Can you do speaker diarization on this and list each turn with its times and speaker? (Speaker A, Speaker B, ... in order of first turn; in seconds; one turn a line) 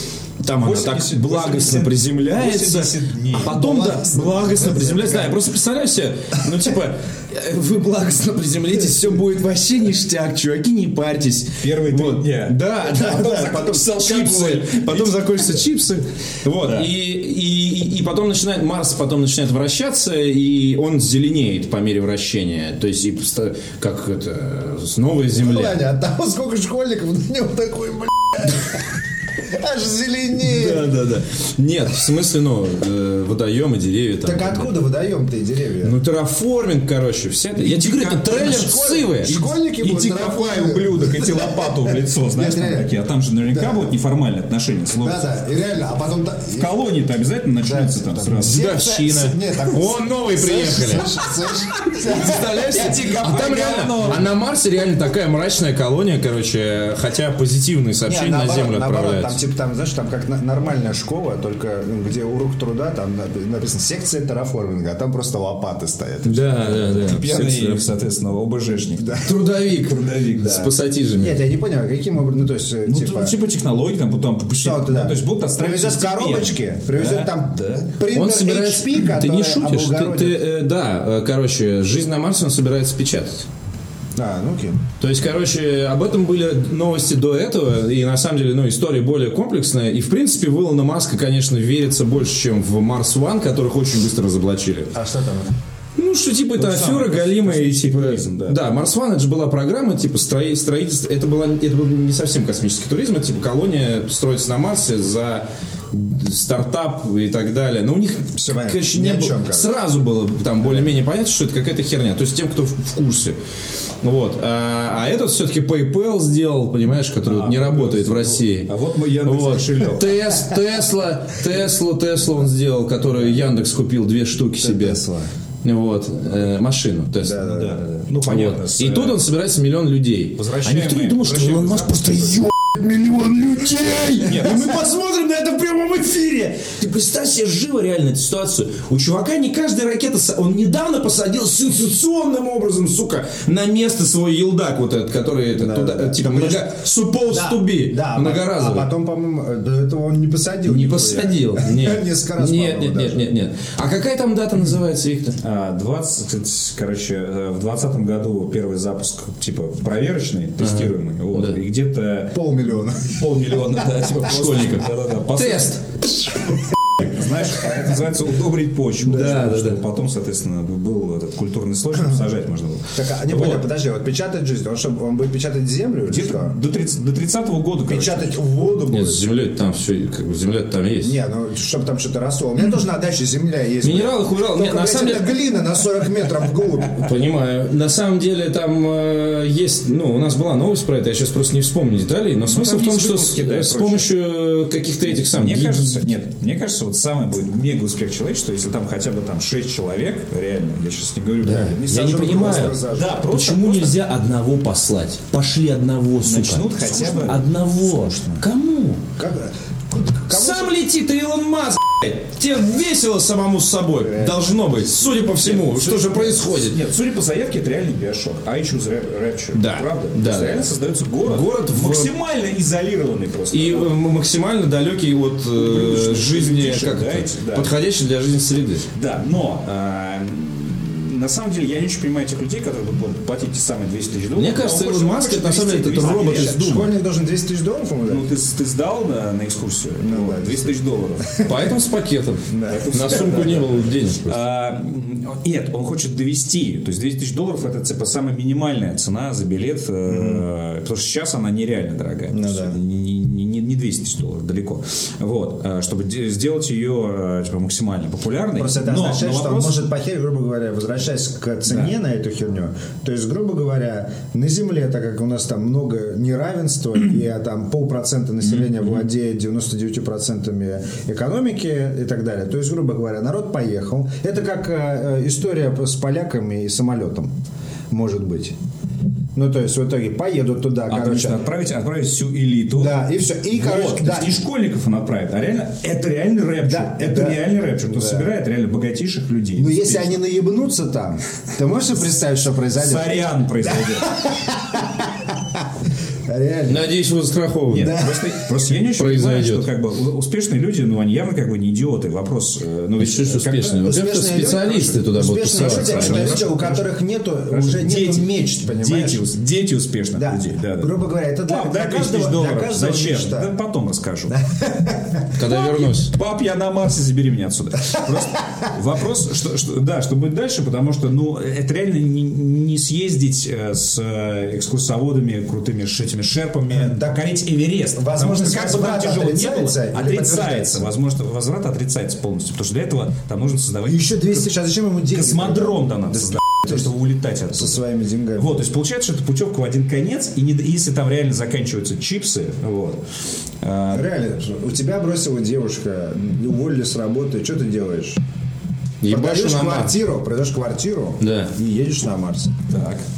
Speaker A: 0.4-25.8
Speaker B: 0.6-3.6
Speaker C: 3.4-5.4
Speaker B: 11.6-15.7
Speaker C: 13.0-13.3
Speaker B: 16.6-16.9
Speaker C: 25.4-30.9
Speaker A: 30.4-34.7
Speaker C: 34.2-36.0
Speaker A: 35.8-39.4
Speaker B: 37.6-38.7
Speaker C: 38.4-42.9
Speaker B: 39.2-45.3
Speaker C: 43.5-43.9
Speaker C: 44.9-46.7
Speaker B: 46.6-48.7
Speaker C: 47.6-52.9
Speaker A: 48.3-59.4
Speaker B: 52.1-54.3
Speaker C: 58.1-67.1
Speaker A: 66.2-67.9
Speaker B: 66.9-70.7
Speaker C: 69.0-69.3
Speaker A: 69.2-71.4
Speaker C: 71.2-73.3
Speaker B: 72.9-77.9
Speaker C: 74.6-80.4
Speaker A: 78.1-83.5
Speaker C: 84.2-84.8
Speaker A: 85.0-94.9
Speaker C: 94.9-95.5
Speaker A: 96.0-113.4
Speaker B: 96.6-98.6
Speaker C: 108.3-109.7
Speaker A: 114.0-118.7
Speaker B: 117.2-120.1
Speaker A: 119.2-125.0
Speaker C: 124.6-125.3
Speaker A: 125.6-127.6
Speaker C: 127.2-127.8
Speaker B: 127.4-129.2
Speaker A: 128.2-148.9
Speaker B: 130.4-132.4
Speaker B: 134.2-134.8
Speaker C: 145.6-146.7
Speaker C: 147.3-153.3
Speaker A: 150.7-155.4
Speaker B: 155.4-162.3
Speaker A: 160.6-161.6
Speaker C: 162.3-163.2
Speaker B: 163.1-165.8
Speaker A: 164.2-166.4
Speaker B: 167.0-173.7
Speaker A: 169.1-169.8
Speaker C: 172.9-176.6
Speaker B: 176.1-178.3
Speaker C: 177.9-179.2
Speaker A: 178.9-181.2
Speaker C: 181.0-187.1
Speaker A: 183.8-185.3
Speaker A: 187.0-196.1
Speaker B: 192.5-194.1
Speaker B: 195.1-204.0
Speaker A: 201.4-209.0
Speaker C: 201.9-203.3
Speaker B: 206.2-207.5
Speaker C: 206.9-207.3
Speaker C: 209.2-210.7
Speaker A: 210.3-216.8
Speaker C: 214.0-214.5
Speaker B: 215.1-223.9
Speaker A: 219.5-220.7
Speaker A: 221.2-222.1
Speaker A: 223.5-228.9
Speaker B: 225.5-227.7
Speaker B: 228.9-236.6
Speaker A: 234.3-236.9
Speaker C: 236.1-238.3
Speaker B: 238.1-241.4
Speaker C: 240.0-240.7
Speaker A: 241.4-244.4
Speaker C: 242.5-243.5
Speaker B: 242.7-259.8
Speaker C: 250.1-250.4
Speaker C: 252.3-252.8
Speaker C: 258.6-277.3
Speaker B: 268.6-268.9
Speaker C: 277.9-278.6
Speaker C: 279.4-281.4
Speaker B: 280.9-283.0
Speaker C: 282.8-284.4
Speaker B: 283.5-290.2
Speaker C: 286.6-288.3
Speaker C: 289.6-295.6
Speaker B: 292.8-294.2
Speaker C: 296.3-297.0
Speaker A: 296.7-298.1
Speaker B: 297.7-303.8
Speaker C: 297.8-298.4
Speaker A: 298.9-299.7
Speaker A: 303.0-306.4
Speaker C: 303.7-309.3
Speaker B: 305.5-306.9
Speaker B: 307.5-310.9
Speaker C: 310.1-313.6
Speaker B: 311.4-314.4
Speaker C: 314.3-315.4
Speaker A: 315.4-316.1
Speaker B: 315.5-334.5
Speaker C: 326.8-327.1
Speaker C: 328.0-330.9
Speaker C: 333.9-336.9
Speaker B: 335.1-337.8
Speaker C: 337.5-338.6
Speaker B: 338.4-343.0
Speaker B: 343.6-344.1
Speaker C: 343.9-348.2
Speaker A: 349.0-349.9
Speaker C: 349.1-352.6
Speaker A: 351.2-351.5
Speaker B: 352.7-353.0